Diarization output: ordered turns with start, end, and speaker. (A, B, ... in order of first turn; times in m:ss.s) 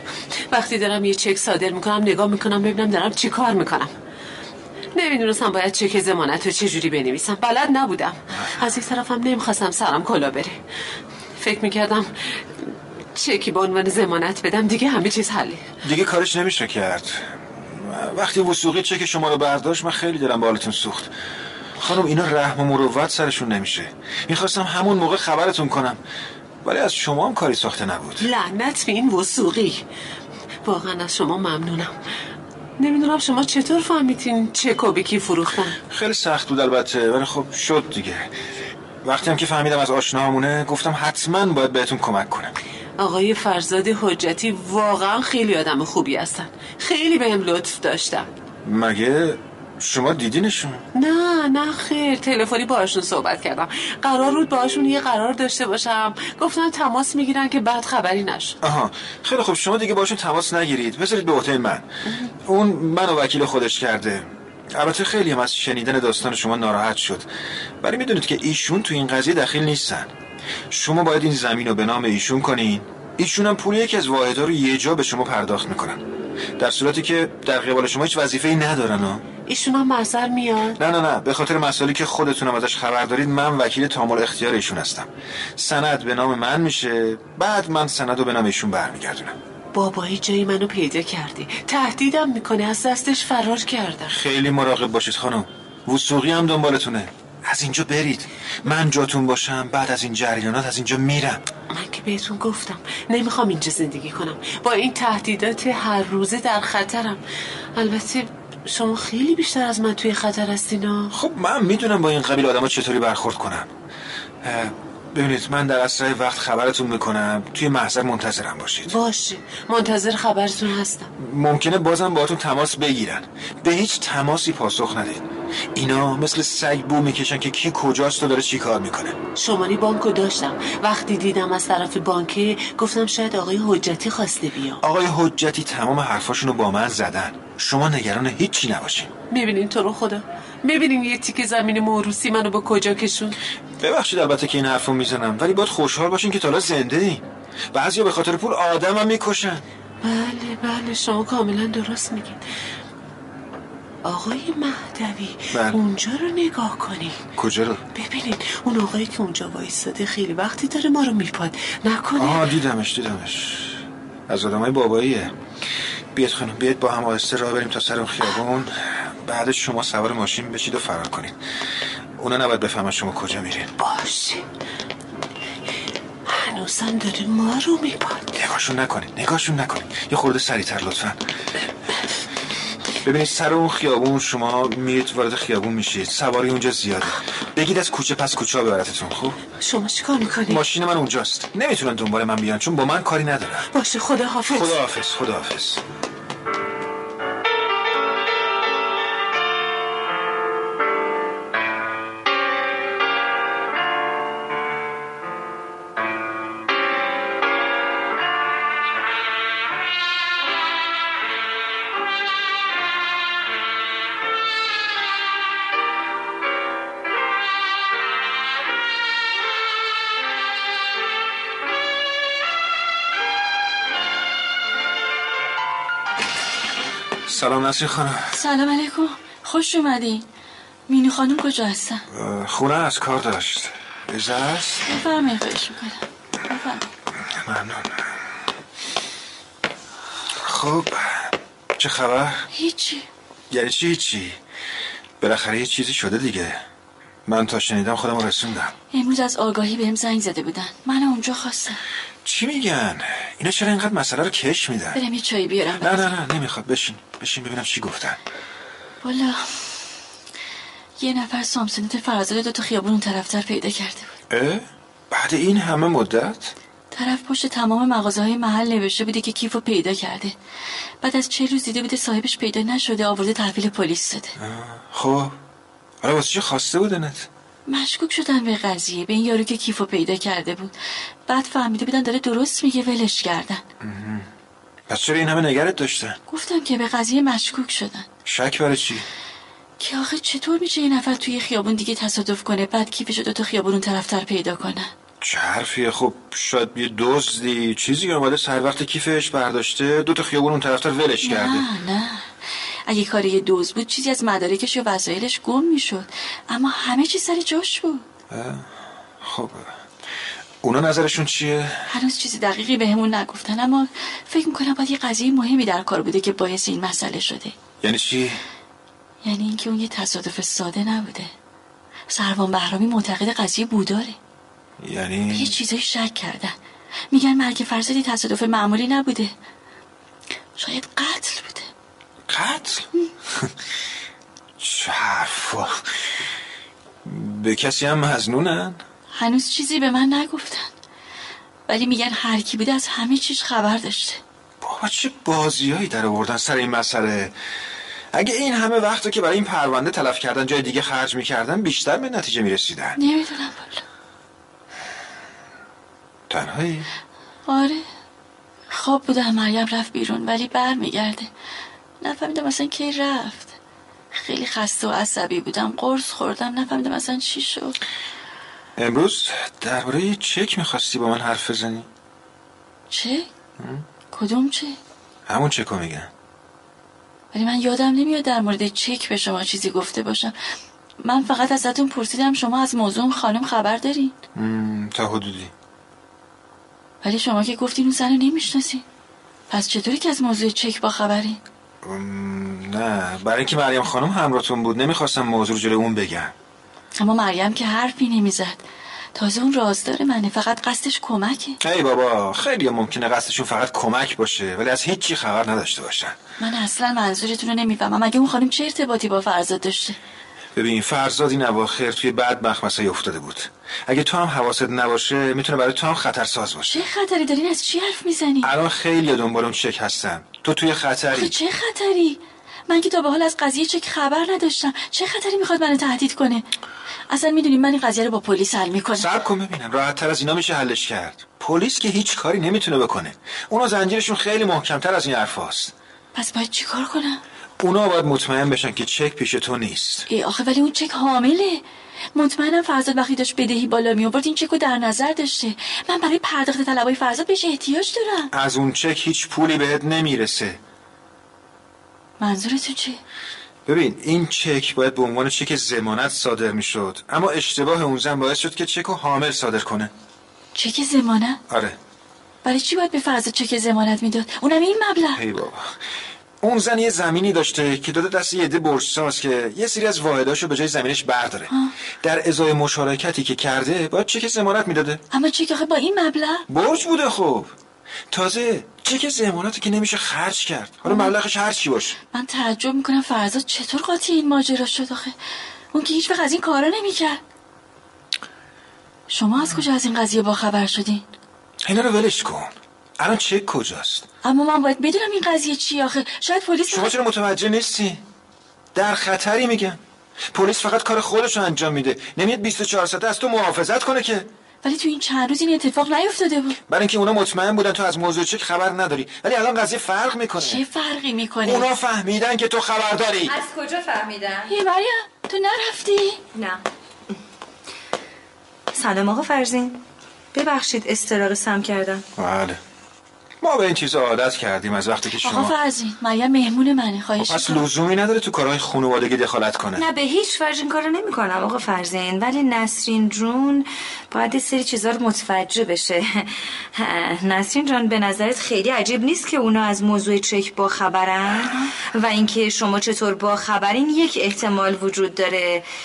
0:00.5-0:03.9 A
0:04.9-0:10.6 A
0:11.4-0:15.6 A
0:15.8-0:21.1 B
0:21.8-0:26.0 B
0:26.6-0:28.2 B
0:28.2-0:29.8 A
0:30.6-0:32.0 A
0:32.8-0:35.8 A
0:35.9-0:38.3 B
0:39.0-0:42.5 B
0:43.0-0:48.3 A
0:48.6-0:50.8 B
0:51.0-0:58.6 A
0:58.6-1:01.9 B
1:02.4-1:07.3 B
1:07.8-1:10.1 B
1:10.7-1:16.0 B
1:16.6-1:19.2 B
1:19.5-1:20.8 A
1:20.8-1:29.4 B
1:29.7-1:34.1 A
1:34.1-1:41.4 B
1:41.7-1:47.2 A
1:47.8-1:51.1 A
1:51.1-1:53.7 B
1:54.4-1:59.0 B
1:58.9-2:01.1 A
2:01.2-2:09.2 B
2:09.4-2:14.8 A
2:14.8-2:19.1 B
2:19.3-2:23.4 A
2:23.8-2:29.6 B
2:30.0-2:32.4 A
2:34.0-2:37.2 A
2:35.5-2:35.8 B
2:37.4-2:37.8 B
2:37.9-2:42.5 A
2:42.2-2:45.3 B
2:46.1-2:51.4 B
2:52.2-2:53.7 B
2:53.8-2:54.4 A
2:56.2-2:58.3 A
2:58.3-3:01.2 B
3:03.0-3:09.4 B
3:09.6-3:10.6 A
3:10.4-3:13.7 B
3:13.7-3:14.8 A
3:14.5-3:15.8 B
3:47.3-3:48.3 B
3:48.3-3:50.2 C
3:50.9-3:52.0 C
3:52.1-3:54.9 B
3:54.8-3:56.9 C
3:57.2-3:58.1 B
4:00.4-4:02.5 B
4:02.5-4:03.0 C
4:03.5-4:04.4 B
4:05.2-4:06.6 B
4:07.3-4:08.7 B
4:08.9-4:11.8 C
4:12.2-4:15.0 B
4:14.9-4:15.9 C
4:15.8-4:18.2 B
4:19.0-4:19.7 C
4:21.0-4:24.1 C
4:24.3-4:26.5 B
4:26.9-4:30.3 C
4:31.0-4:34.3 C
4:34.4-4:35.3 B
4:36.0-4:37.3 B
4:37.7-4:40.7 C
4:41.3-4:43.6 C
4:43.8-4:44.3 B
4:44.9-4:46.2 B
4:46.3-4:48.1 C
4:48.2-4:49.1 B
4:49.8-4:54.9 C
4:55.2-5:01.7 B
5:01.2-5:02.2 C
5:02.9-5:08.0 C
5:08.3-5:08.7 B
5:09.2-5:09.7 B
5:10.6-5:11.8 B
5:11.9-5:17.5 C
5:17.8-5:18.4 B
5:19.2-5:21.3 C
5:22.1-5:24.2 C
5:24.8-5:25.6 B
5:25.3-5:26.5 C
5:27.1-5:29.3 C
5:30.6-5:31.7 C
5:32.3-5:33.5 B
5:34.6-5:35.9 B
5:37.0-5:38.8 B
5:39.1-5:40.7 C
5:41.7-5:44.2 C
5:44.6-5:47.3 B
5:48.1-5:53.0 B
5:53.0-5:53.8 C
5:56.3-5:56.9 B
5:57.5-5:57.8 C
5:58.7-6:01.3 C
6:02.0-6:03.5 C
6:04.1-6:07.8 C
6:08.8-6:11.9 B
6:12.9-6:13.3 C
6:13.6-6:13.8 B
6:14.1-6:14.8 C
6:15.3-6:16.1 B
6:17.3-6:20.3 C
6:21.0-6:24.1 C
6:24.3-6:25.5 B
6:27.0-6:28.8 C
6:29.5-6:31.4 C
6:31.8-6:36.3 B
6:36.9-6:38.6 C
6:39.1-6:41.6 C
6:41.6-6:46.2 B
6:46.4-6:50.0 C
6:50.5-6:56.8 B
6:56.6-6:58.5 C
6:58.4-7:01.3 B
7:01.1-7:06.4 C
7:07.1-7:09.1 C
7:08.9-7:15.7 B
7:16.1-7:17.2 C
7:17.6-7:20.1 B
7:20.1-7:21.6 C
7:22.1-7:28.3 C
7:28.3-7:30.6 B
7:32.2-7:33.0 C
7:33.6-7:39.9 B
7:40.5-7:41.4 C
7:41.5-7:41.8 B
7:42.4-7:45.2 C
7:45.1-7:45.8 B
7:46.4-7:51.5 B
7:52.0-7:55.0 B
7:55.1-7:56.4 C
7:56.5-7:57.5 B
7:58.1-8:02.0 B
8:00.8-8:01.1 C
8:02.1-8:05.1 C
8:05.7-8:07.2 C
8:09.1-8:11.0 C
8:11.6-8:14.0 B
8:14.2-8:16.9 C
8:16.7-8:18.0 B
8:18.7-8:19.8 B
8:20.3-8:24.3 B
8:24.6-8:26.6 C
8:26.7-8:30.6 B
8:30.4-8:31.7 C
8:31.4-8:33.4 B
8:33.3-8:34.5 D
8:34.5-8:36.2 C
8:36.3-8:36.6 D
8:38.7-8:42.0 D
8:42.2-8:42.6 B
8:43.4-8:45.5 B
8:45.2-8:47.6 C
8:47.2-8:49.8 B
8:49.8-9:05.6 D